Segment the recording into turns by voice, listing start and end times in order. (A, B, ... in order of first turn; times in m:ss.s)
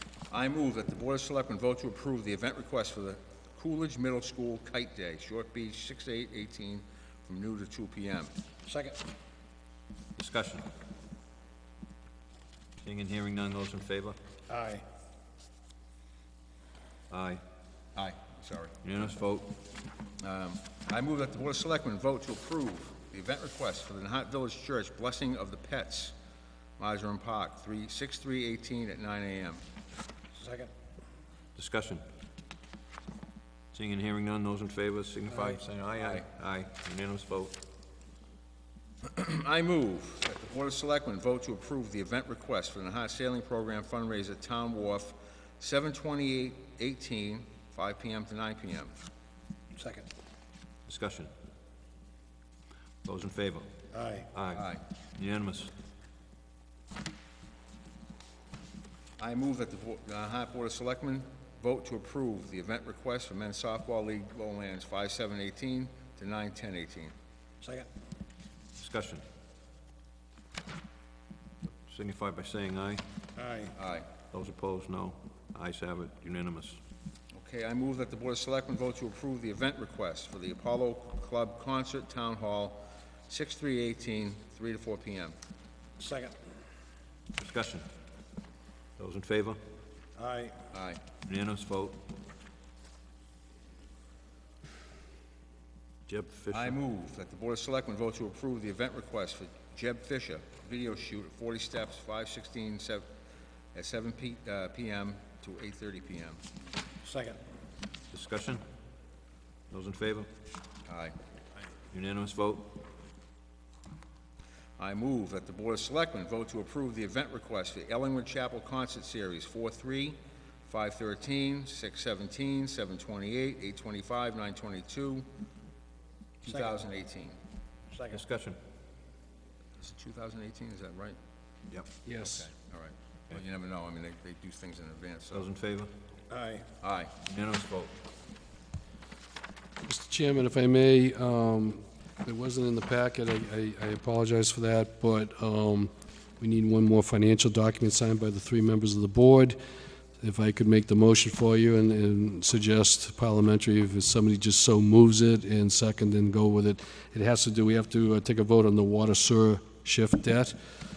0:00.3-0:08.3 A
0:08.7-0:09.0 B
0:10.2-0:10.6 C
0:12.8-0:14.2 C
0:14.5-0:14.8 B
0:17.1-0:17.4 C
0:18.0-0:19.1 A
0:18.8-0:19.6 C
0:20.2-0:26.2 A
0:26.8-0:29.6 A
0:30.3-0:30.7 B
0:31.6-0:32.0 C
0:33.7-0:37.6 C
0:36.0-0:36.2 A
0:39.0-0:48.9 A
0:49.7-0:50.1 B
0:50.9-0:51.3 C
0:53.0-0:53.7 C
0:53.9-0:54.3 B
0:54.3-0:55.7 C
0:54.5-0:54.8 A
0:59.2-1:07.1 A
1:07.6-1:07.9 B
1:08.8-1:09.2 C
1:11.9-1:13.0 C
1:13.4-1:13.7 B
1:13.8-1:14.1 A
1:14.3-1:16.8 C
1:17.3-1:25.4 A
1:26.0-1:26.4 B
1:27.4-1:27.9 C
1:29.0-1:29.6 C
1:30.2-1:30.6 B
1:30.7-1:31.0 A
1:31.2-1:32.0 C
1:36.1-1:36.8 C
1:36.5-1:43.1 A
1:43.8-1:46.4 A
1:47.0-1:47.4 B
1:48.1-1:48.6 C
1:49.7-1:50.3 C
1:50.9-1:51.2 A
1:51.9-1:52.8 C
1:54.8-2:05.3 A
2:06.4-2:07.4 A
2:07.9-2:08.2 B
2:08.1-2:08.6 C
2:09.8-2:11.2 A
2:12.1-2:12.5 D
2:12.2-2:15.5 A
2:15.3-2:15.9 C
2:16.3-2:16.7 B
2:16.8-2:17.1 A
2:17.2-2:18.0 C
2:19.8-2:29.6 D
2:30.2-2:40.6 D